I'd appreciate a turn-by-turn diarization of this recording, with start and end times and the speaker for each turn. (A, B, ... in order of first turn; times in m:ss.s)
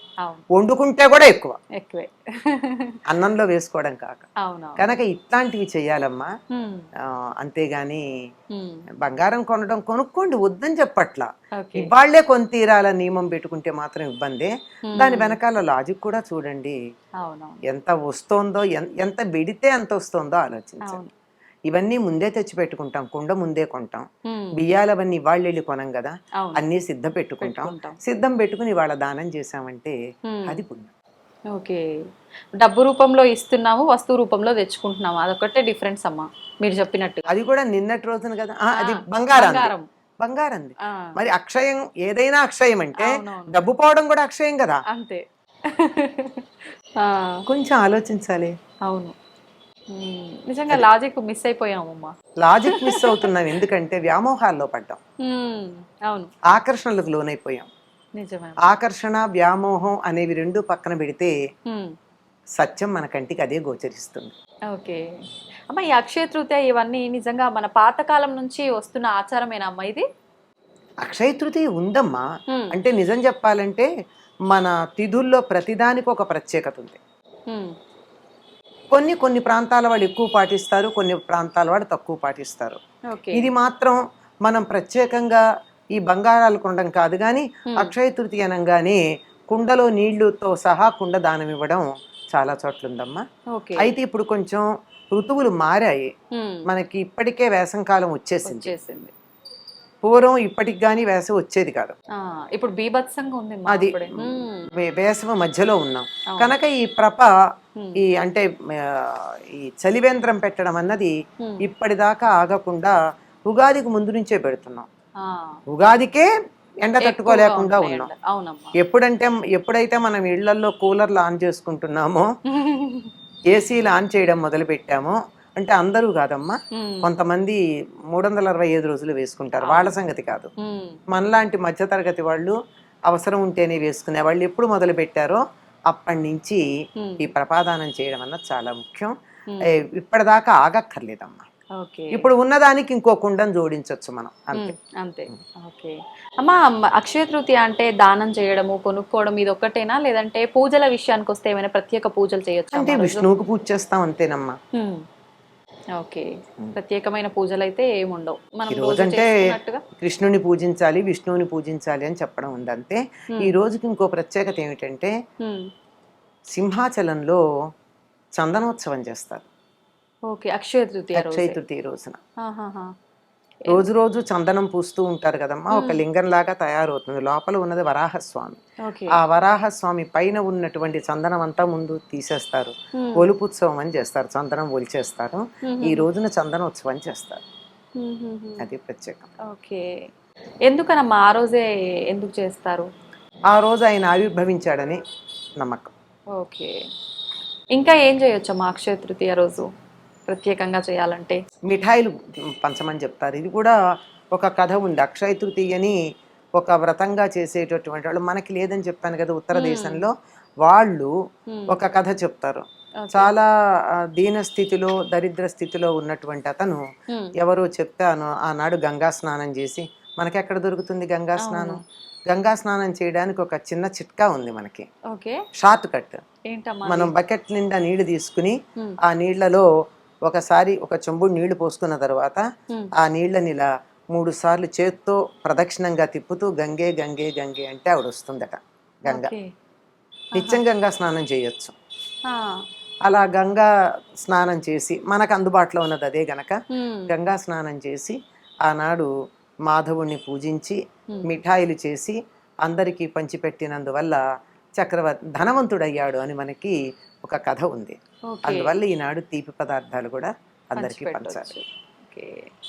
0:00.6-0:01.6 A
0:01.8-0:03.0 B
0:03.1-0:04.2 A
0:04.4-0:04.9 B
0:04.8-0:06.3 A
0:06.5-0:06.9 B
0:07.4-0:08.0 A
0:08.5-0:08.8 B
0:09.0-0:16.8 A
0:11.6-0:11.9 B
0:14.9-0:15.4 B
0:17.2-0:17.6 B
0:17.7-0:21.0 A
0:20.8-0:21.1 B
0:21.7-0:30.9 A
0:24.3-0:24.6 B
0:26.4-0:26.6 B
0:27.4-0:28.0 B
0:30.3-0:30.6 B
0:31.5-0:31.8 B
0:32.6-0:37.2 B
0:37.3-0:44.8 A
0:38.8-0:39.9 B
0:40.8-0:41.1 B
0:43.0-0:43.5 B
0:44.9-0:45.2 B
0:45.7-0:46.5 B
0:47.0-0:47.4 B
0:47.5-0:48.6 A
0:48.9-0:49.2 B
0:49.9-0:52.1 B
0:52.4-0:55.0 A
0:52.7-0:53.3 B
0:55.2-0:56.3 B
0:56.5-0:57.7 A
0:58.2-0:58.6 B
0:58.7-1:01.4 A
1:02.6-1:04.3 A
1:04.7-1:05.0 B
1:05.7-1:10.0 B
1:11.0-1:13.9 A
1:12.5-1:12.8 B
1:14.5-1:17.0 A
1:18.9-1:22.8 A
1:23.1-1:23.5 B
1:23.3-1:25.4 A
1:26.0-1:29.0 A
1:29.5-1:33.2 A
1:33.5-1:33.9 B
1:33.8-1:36.1 A
1:36.3-1:36.6 B
1:36.7-1:38.7 A
1:38.4-1:39.1 B
1:40.0-1:42.0 A
1:42.2-1:44.7 B
1:43.7-1:47.3 A
1:46.3-1:46.5 B
1:48.0-1:53.0 A
1:53.5-1:54.9 A
1:55.2-1:55.6 B
1:55.7-1:56.3 A
1:56.8-1:58.1 A
1:57.0-1:58.7 B
1:58.8-2:02.3 A
2:02.5-2:03.1 B
2:03.5-2:07.6 A
2:06.7-2:07.1 B
2:08.1-2:10.5 A
2:09.6-2:09.9 B
2:10.6-2:11.0 B
2:11.1-2:12.6 A
2:13.1-2:16.6 A
2:17.0-2:17.3 B
2:17.2-2:19.1 A
2:19.5-2:19.8 B
2:19.7-2:21.4 A
2:21.8-2:22.3 B
2:22.2-2:24.8 A
2:24.5-2:33.3 B
2:32.7-2:34.6 A
2:34.7-2:35.0 B
2:36.0-2:39.8 B
2:38.7-2:39.3 A
2:40.0-2:45.1 A
2:46.5-2:47.4 A
2:48.4-2:49.4 A
2:50.3-2:51.6 B
2:51.2-2:52.2 A
2:52.4-2:52.9 B
2:53.7-2:58.6 A
2:55.7-2:56.0 B
2:58.8-2:59.2 B
2:59.1-3:07.4 A
3:03.0-3:03.3 B
3:05.6-3:06.0 B
3:08.0-3:08.7 B
3:08.6-3:09.3 A
3:09.5-3:09.9 B
3:10.7-3:12.9 B
3:13.5-3:15.0 A
3:15.6-3:15.9 A
3:16.4-3:16.7 B
3:17.8-3:19.7 B
3:20.3-3:21.4 B
3:21.7-3:23.8 A
3:24.3-3:26.0 A
3:26.6-3:30.1 A
3:29.5-3:30.1 B
3:30.6-3:31.1 A
3:31.5-3:31.8 B
3:31.7-3:33.5 A
3:33.0-3:33.3 B
3:34.1-3:36.8 A
3:37.4-3:44.9 A
3:41.4-3:41.8 B
3:45.1-3:45.4 B
3:45.6-3:46.2 A
3:46.5-3:47.1 B
3:46.9-3:49.7 A
3:50.3-3:52.4 A
3:53.0-3:59.3 A
3:59.1-3:59.4 B
4:00.4-4:00.6 B
4:00.4-4:01.8 A
4:02.3-4:02.6 B
4:03.1-4:03.7 A
4:04.2-4:06.6 A
4:06.7-4:07.1 B
4:07.1-4:08.2 A
4:08.7-4:09.1 A
4:09.7-4:14.2 A
4:14.8-4:21.6 A
4:18.3-4:18.8 B
4:20.8-4:22.5 B